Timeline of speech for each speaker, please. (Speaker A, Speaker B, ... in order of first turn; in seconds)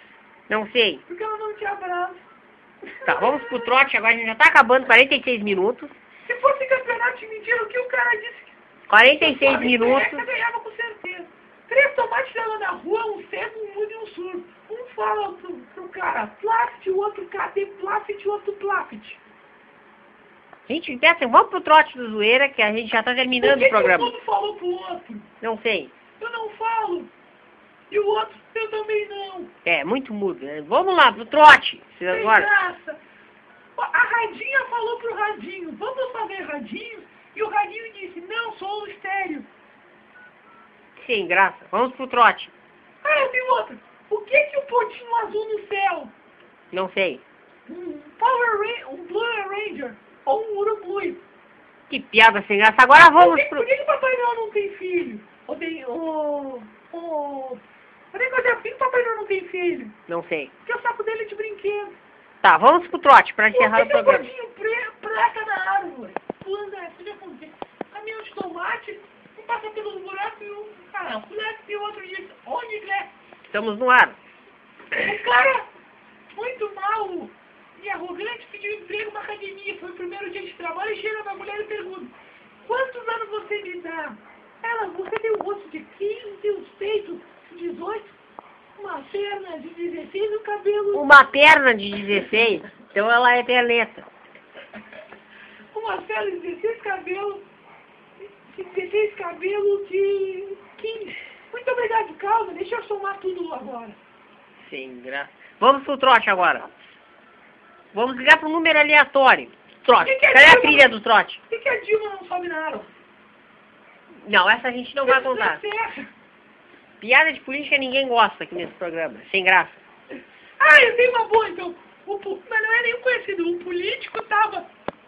Speaker A: 0.5-1.0, 3.0-5.9, 8.9-10.2, 20.7-24.1, 25.4-25.9, 29.6-32.5, 41.0-42.5, 46.7-47.2, 51.9-53.7, 60.1-60.5, 62.4-64.3, 73.5-74.2, 90.9-94.0, 104.6-106.7, 107.9-111.4, 114.2-115.6, 117.0-119.8
Speaker B: 1.1-2.2, 2.9-3.6, 6.2-8.5, 9.2-19.2, 23.4-25.3, 26.2-27.1, 27.9-29.5, 32.1-33.0, 33.8-39.5, 43.0-46.1, 47.7-51.2, 53.2-57.6, 58.1-60.0, 60.6-61.9, 63.5-73.1, 75.0-75.7, 76.3-82.1, 82.6-88.1, 88.8-91.2, 95.7-97.4, 98.2-104.0, 110.0-110.9, 111.5-112.9, 115.0-116.1, 120.6-124.7